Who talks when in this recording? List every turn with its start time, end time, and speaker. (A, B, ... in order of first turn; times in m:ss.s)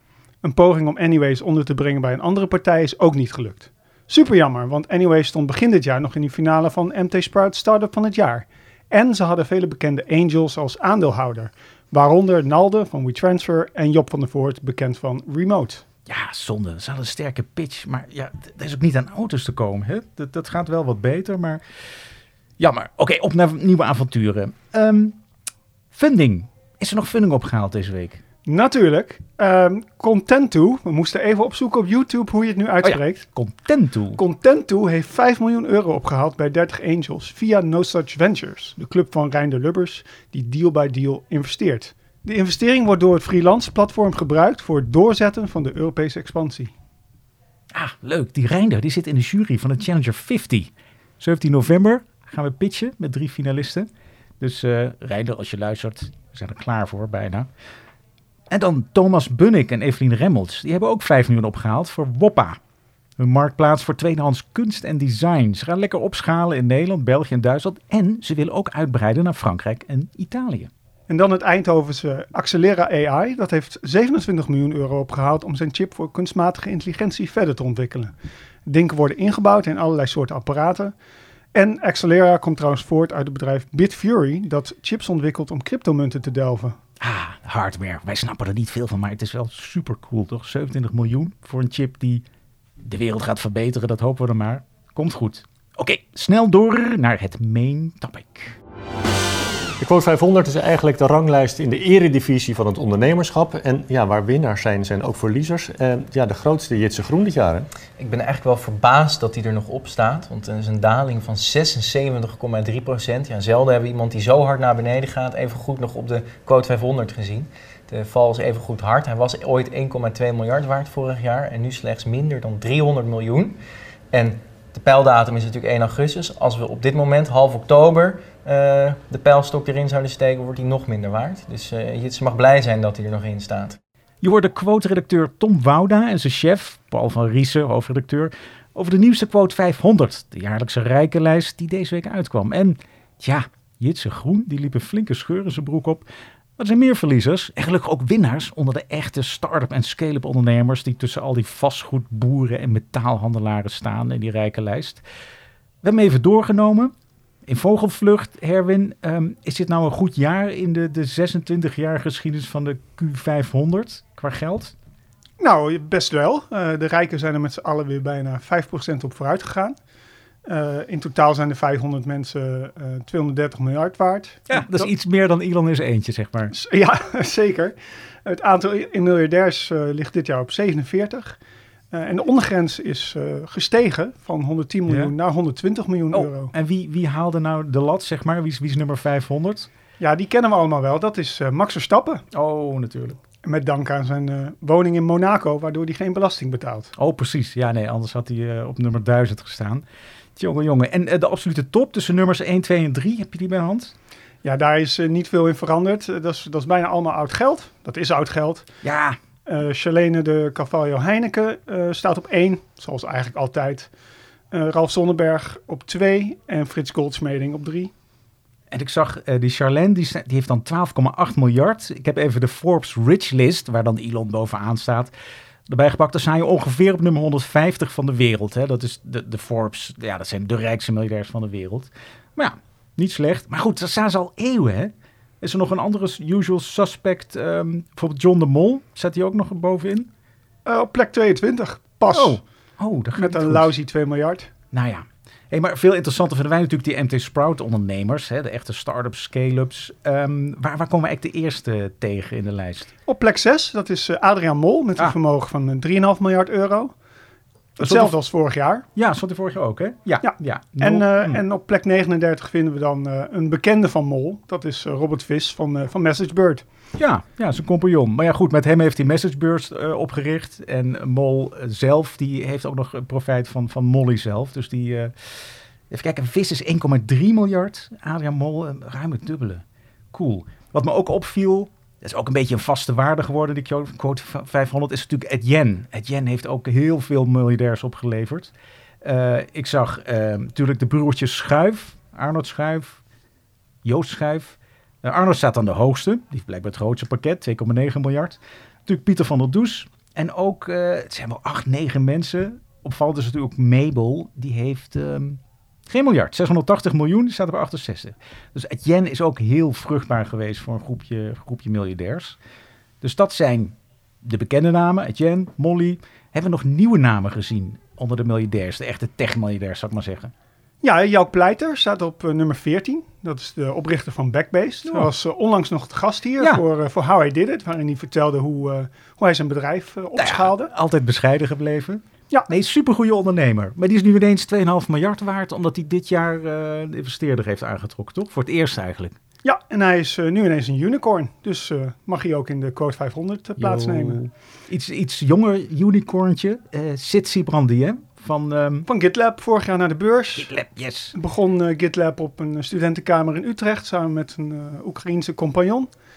0:00.4-0:15.8 A
0:16.1-0:21.6 B
0:22.6-0:25.2 B
0:25.9-0:28.2 B
0:28.5-0:33.3 A
0:32.8-0:34.2 B
0:34.2-0:46.7 A
0:47.7-0:53.9 B
0:54.4-0:57.5 B
0:58.5-1:02.6 B
1:03.2-1:10.7 B
1:11.1-1:18.1 A
1:18.7-1:21.0 A
1:21.5-1:26.8 A
1:27.0-1:32.2 B
1:32.8-1:38.6 B
1:39.8-1:47.7 C
1:48.0-2:03.6 D
2:04.1-2:13.8 D
2:14.2-2:26.0 B
2:26.6-2:35.0 B
2:35.8-2:36.9 B
2:37.5-2:44.7 B
2:45.4-2:49.8 A
2:50.4-2:54.8 A
2:54.5-2:56.5 B
2:56.5-3:01.4 A
3:01.9-3:06.5 A
3:04.9-3:05.1 B
3:06.1-3:09.7 B
3:10.0-3:12.2 A
3:12.3-3:13.2 B
3:13.4-3:16.9 A
3:17.0-3:19.8 B
3:20.4-3:23.9 B
3:24.4-3:28.7 A
3:28.8-3:29.2 B
3:29.5-3:33.9 A
3:34.5-3:37.9 A
3:38.7-3:45.1 B
3:45.7-4:00.1 B
4:00.6-4:02.4 A
4:02.1-4:03.7 B
4:03.2-4:04.5 A
4:04.7-4:12.9 B
4:13.1-4:16.9 A
4:17.8-4:18.9 A
4:17.8-4:18.2 B
4:19.0-4:21.4 B
4:20.2-4:26.6 A
4:27.0-4:35.1 B
4:35.9-4:48.5 B
4:49.0-4:53.0 B
4:53.8-5:12.4 B
5:13.0-5:20.3 B
5:20.8-5:30.7 A
5:30.2-5:39.2 B
5:39.4-5:44.2 A
5:43.6-5:48.9 B
5:48.8-5:50.5 A
5:50.4-5:51.2 B
5:51.1-5:55.9 A